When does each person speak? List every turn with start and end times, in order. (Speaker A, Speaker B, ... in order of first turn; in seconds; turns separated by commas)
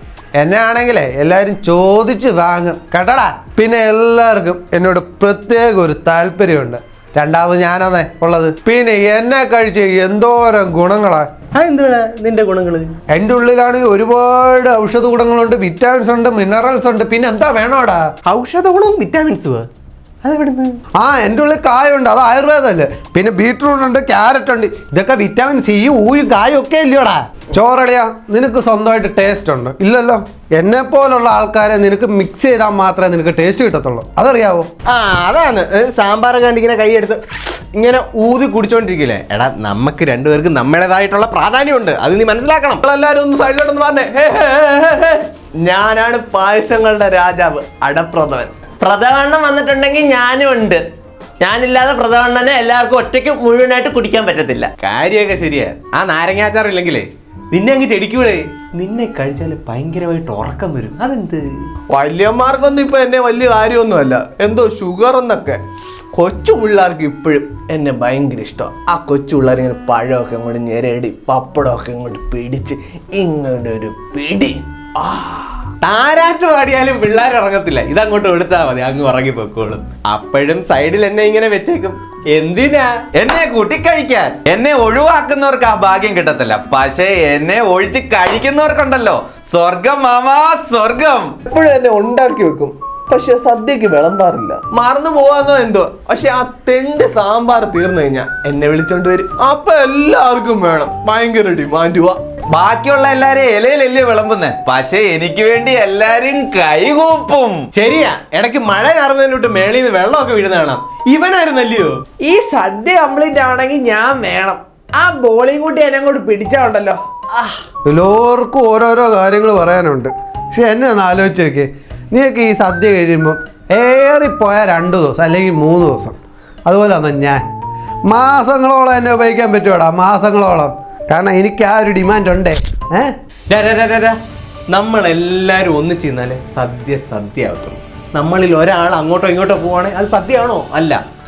Speaker A: 0.4-11.3, Speaker B: 11.5-12.9, Speaker A: 13.1-18.0, Speaker B: 18.2-19.7, Speaker B: 20.2-20.8, Speaker A: 20.9-34.7, Speaker B: 34.9-42.8, Speaker C: 42.8-48.5, Speaker D: 48.8-50.8, Speaker D: 51.4-54.7, Speaker B: 54.8-61.4, Speaker C: 61.9-65.6, Speaker C: 66.1-75.5, Speaker B: 75.8-82.9, Speaker E: 83.2-91.3, Speaker C: 91.4-102.2, Speaker E: 102.5-107.6, Speaker B: 107.7-111.9, Speaker F: 112.2-117.5, Speaker A: 117.8-127.4, Speaker A: 128.1-133.1, Speaker B: 133.5-134.2, Speaker B: 134.7-141.0